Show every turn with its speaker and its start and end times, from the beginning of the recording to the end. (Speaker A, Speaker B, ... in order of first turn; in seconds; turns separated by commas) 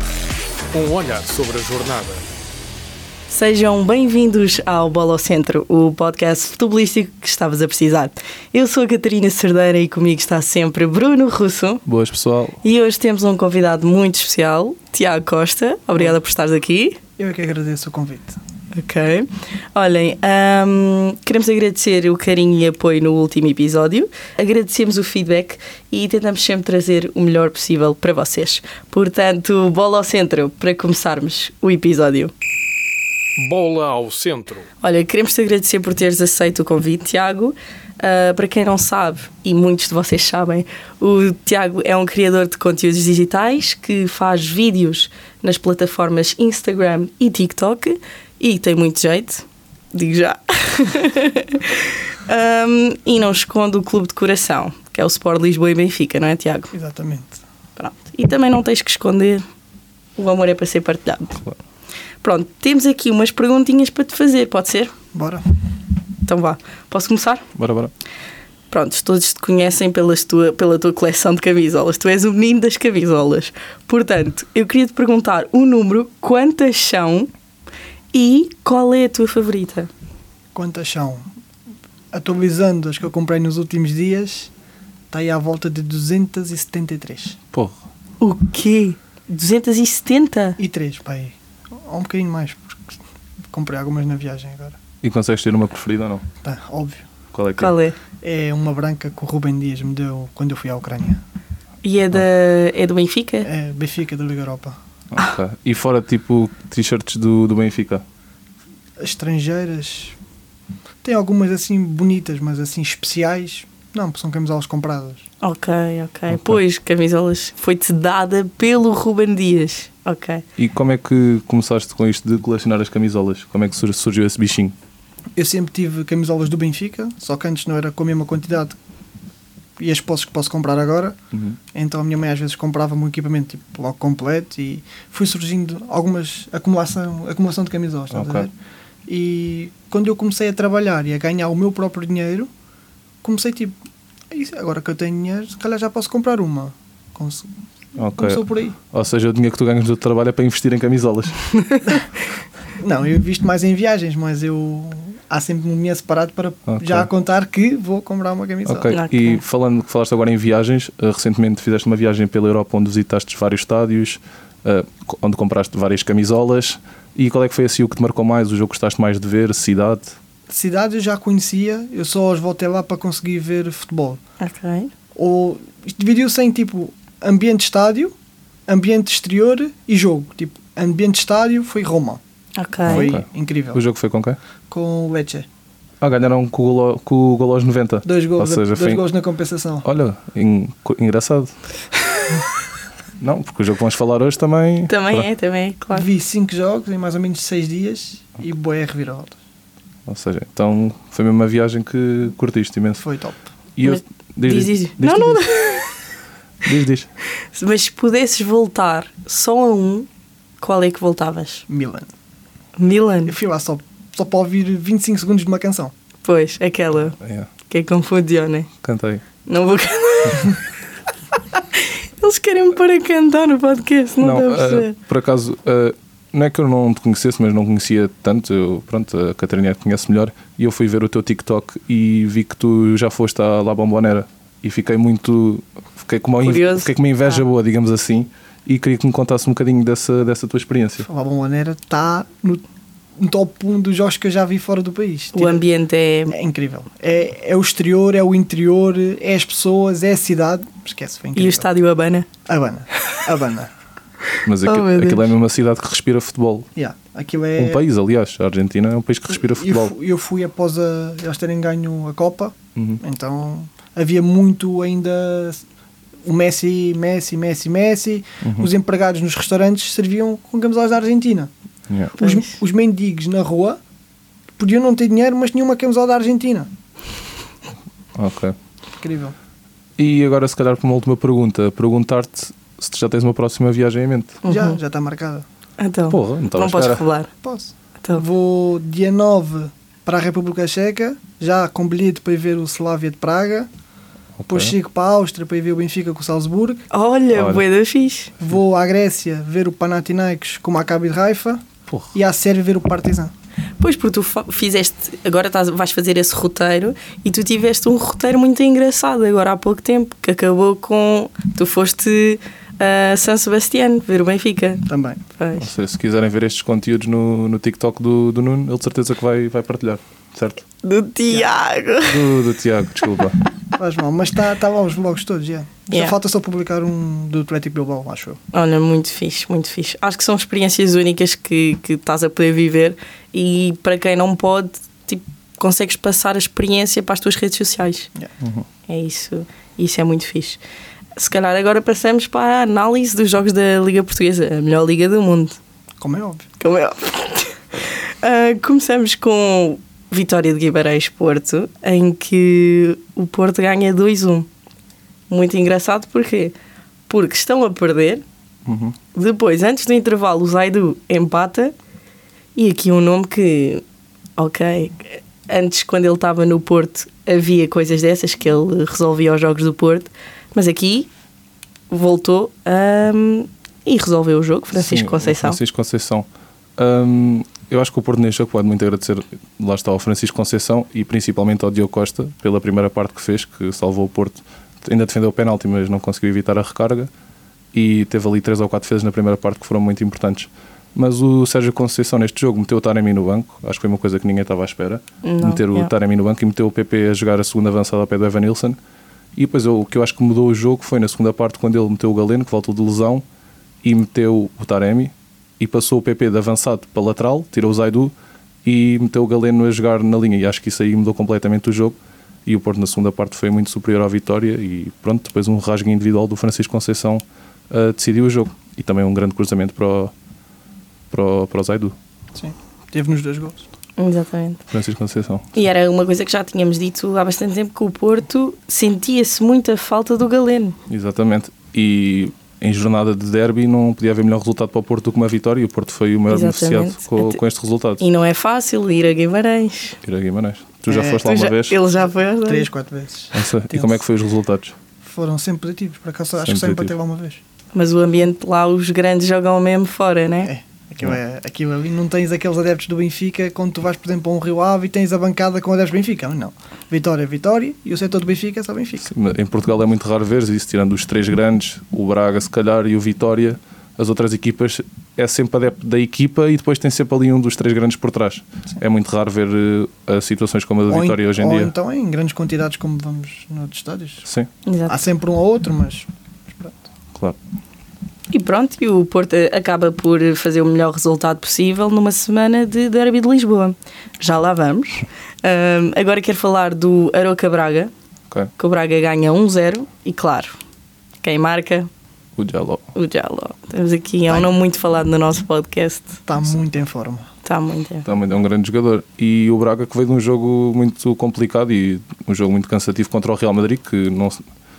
Speaker A: 0.7-2.2, Speaker B: 3.3-11.8, Speaker C: 11.8-12.6, Speaker B: 12.6-17.0, Speaker D: 17.2-18.4, Speaker B: 18.7-32.3, Speaker A: 33.4-34.7, Speaker B: 34.8-56.7, Speaker D: 56.7-57.4, Speaker B: 57.8-59.4, Speaker B: 60.2-61.4, Speaker B: 62.2-64.9, Speaker D: 65.1-65.4, Speaker B: 66.2-67.4, Speaker C: 67.5-67.9, Speaker B: 68.7-77.3, Speaker B: 78.1-79.9, Speaker D: 80.5-81.3, Speaker D: 82.1-84.5, Speaker D: 85.1-87.4, Speaker B: 88.2-90.6, Speaker D: 90.6-93.0, Speaker D: 93.5-94.8, Speaker C: 95.0-96.2, Speaker D: 96.4-97.0, Speaker C: 97.3-97.8, Speaker B: 97.6-98.0, Speaker D: 98.2-101.2, Speaker B: 101.8-103.5, Speaker D: 103.4-104.8, Speaker C: 105.1-108.0, Speaker D: 109.0-110.2, Speaker D: 111.0-115.2, Speaker B: 115.4-120.4, Speaker C: 120.6-124.7, Speaker D: 125.3-128.8, Speaker D: 129.8-131.2, Speaker D: 131.7-138.5, Speaker C: 138.1-138.5, Speaker D: 139.1-142.5, Speaker D: 143.2-143.8, Speaker D: 144.3-147.5, Speaker C: 148.0-151.5, Speaker D: 148.2-148.8, Speaker D: 152.8-158.9, Speaker C: 156.7-157.1, Speaker C: 158.7-170.2, Speaker B: 158.9-159.4, Speaker D: 170.5-174.2, Speaker B: 174.4-174.9, Speaker D: 175.1-178.1, Speaker D: 178.7-182.2, Speaker B: 182.6-183.1, Speaker D: 182.8-183.8, Speaker C: 182.8-184.4, Speaker D: 184.7-185.5, Speaker C: 186.0-189.0, Speaker D: 188.0-189.8, Speaker C: 189.8-191.5, Speaker C: 193.2-195.3, Speaker B: 194.9-196.1, Speaker D: 195.9-199.4, Speaker C: 200.1-203.0, Speaker D: 203.0-203.4, Speaker C: 203.8-205.8, Speaker B: 203.8-205.9, Speaker C: 206.6-207.1, Speaker B: 207.4-210.1, Speaker B: 210.6-211.6, Speaker D: 211.7-212.1, Speaker B: 212.8-213.3, Speaker D: 213.3-215.9, Speaker B: 216.2-217.2, Speaker C: 217.2-217.5, Speaker B: 217.7-218.7, Speaker C: 218.8-219.2, Speaker B: 219.4-220.6, Speaker B: 221.7-224.9, Speaker C: 224.2-241.1, Speaker B: 236.4-236.9, Speaker D: 241.0-242.6, Speaker D: 243.2-245.6, Speaker B: 245.3-246.3, Speaker D: 246.3-251.7, Speaker B: 251.3-252.3, Speaker D: 252.4-253.7, Speaker C: 254.4-256.7, Speaker B: 254.6-255.3, Speaker D: 256.8-257.8, Speaker C: 257.6-259.9, Speaker D: 259.3-265.6, Speaker D: 266.2-271.5, Speaker C: 268.4-268.7, Speaker C: 271.9-272.1, Speaker D: 272.1-273.8, Speaker B: 272.2-272.5, Speaker D: 274.6-276.7, Speaker C: 278.1-278.5, Speaker D: 279.0-279.4, Speaker C: 280.0-284.4, Speaker B: 284.4-284.8, Speaker D: 284.5-285.4, Speaker B: 285.8-287.3, Speaker C: 286.1-287.0, Speaker D: 287.4-293.7, Speaker C: 294.4-294.7, Speaker D: 294.5-296.9, Speaker B: 296.9-298.3, Speaker C: 297.3-297.6, Speaker D: 298.4-303.3, Speaker B: 303.8-314.8, Speaker D: 314.9-315.2, Speaker B: 315.4-315.7, Speaker C: 315.6-320.6, Speaker B: 320.8-322.3, Speaker C: 322.0-323.4, Speaker D: 323.7-328.4, Speaker B: 325.9-326.1, Speaker B: 328.5-338.1, Speaker C: 338.4-338.6, Speaker B: 338.9-340.6, Speaker B: 341.1-345.6, Speaker D: 346.0-346.5, Speaker B: 346.6-354.5, Speaker B: 355.3-356.5, Speaker B: 357.1-358.2, Speaker C: 358.6-358.9, Speaker B: 359.1-361.7, Speaker B: 362.5-363.8, Speaker B: 364.4-371.1, Speaker B: 371.9-375.6, Speaker C: 374.7-376.2, Speaker C: 376.8-387.1, Speaker C: 387.7-398.8, Speaker B: 395.2-395.9, Speaker C: 399.4-403.2, Speaker C: 403.8-408.1, Speaker C: 408.6-420.1, Speaker C: 421.1-421.9, Speaker D: 422.3-423.7, Speaker B: 424.0-424.6, Speaker C: 424.7-425.5, Speaker B: 425.5-430.8, Speaker C: 430.9-438.0, Speaker B: 436.3-437.4, Speaker B: 438.0-440.0, Speaker C: 440.0-441.8, Speaker D: 440.9-441.3, Speaker B: 441.2-442.7, Speaker D: 442.4-444.0, Speaker C: 443.3-444.7, Speaker D: 445.0-447.4, Speaker C: 446.4-446.9, Speaker B: 447.7-450.5, Speaker D: 450.4-459.1, Speaker C: 459.0-471.7, Speaker D: 470.9-474.2, Speaker B: 474.6-475.0, Speaker D: 474.9-476.8, Speaker B: 478.3-487.9, Speaker B: 488.6-490.6, Speaker B: 491.2-491.9, Speaker C: 492.4-492.9, Speaker B: 492.9-496.2, Speaker D: 496.3-497.3, Speaker B: 497.4-498.1, Speaker C: 498.0-504.4